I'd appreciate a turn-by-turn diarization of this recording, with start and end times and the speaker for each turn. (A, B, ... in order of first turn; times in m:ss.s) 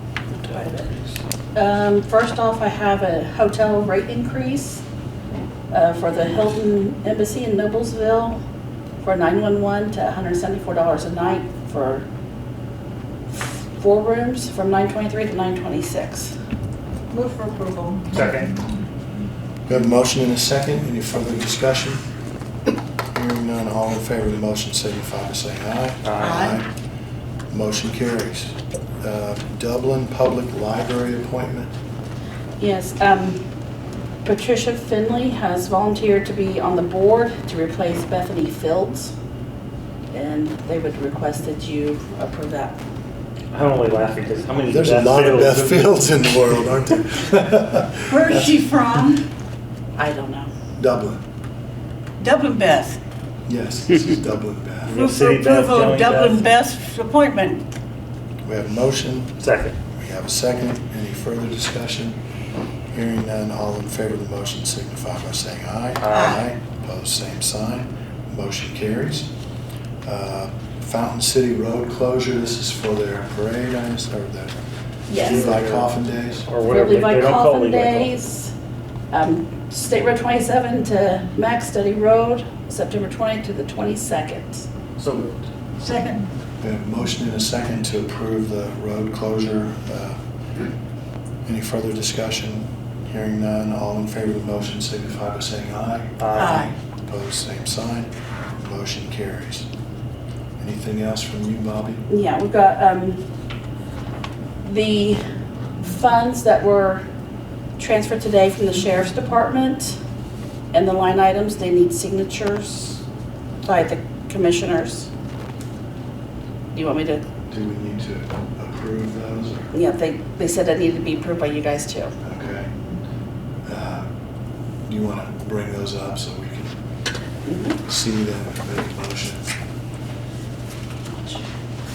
0:00.5-0:00.9 A
0:00.9-0:01.2 B
0:01.5-0:04.8 A
0:05.7-0:08.4 A
0:09.0-0:12.1 A
0:13.3-0:16.4 A
0:17.1-0:18.1 C
0:18.1-0:18.5 D
0:19.7-0:22.0 B
0:23.1-0:26.7 B
0:26.0-0:26.5 D
0:26.2-0:26.6 C
0:27.5-0:31.7 B
0:32.6-0:33.4 A
0:34.2-0:39.1 A
0:40.1-0:42.8 A
0:43.5-0:46.0 D
0:44.7-0:48.5 B
0:48.1-0:49.2 C
0:50.0-0:50.5 A
0:50.8-0:51.2 B
0:52.2-0:53.0 C
0:53.5-0:55.0 B
0:54.8-0:56.4 D
0:54.9-0:57.6 C
0:58.4-0:59.4 B
0:59.4-0:59.8 D
1:00.0-1:02.2 B
1:02.9-1:09.3 B
1:06.0-1:06.4 D
1:06.1-1:06.4 C
1:10.0-1:14.6 B
1:15.1-1:15.5 A
1:15.2-1:15.9 D
1:15.2-1:16.5 B
1:16.5-1:18.1 D
1:16.6-1:18.5 A
1:19.1-1:24.7 A
1:25.0-1:25.5 D
1:25.8-1:26.2 C
1:26.6-1:30.2 B
1:31.5-1:36.2 B
1:36.2-1:36.7 D
1:36.3-1:36.8 C
1:37.1-1:38.1 B
1:38.6-1:39.7 B
1:40.6-1:42.0 B
1:42.1-1:43.2 A
1:44.6-1:45.2 A
1:45.8-1:47.0 A
1:47.8-1:50.0 A
1:50.7-1:53.0 A
1:53.6-1:55.1 A
1:56.7-1:57.2 A
1:57.5-1:59.7 B
1:59.7-2:02.1 A
2:02.2-2:02.7 B
2:03.7-2:04.1 B
2:04.9-2:06.7 B
2:07.5-2:07.8 A
2:07.9-2:09.4 B
2:11.1-2:11.4 A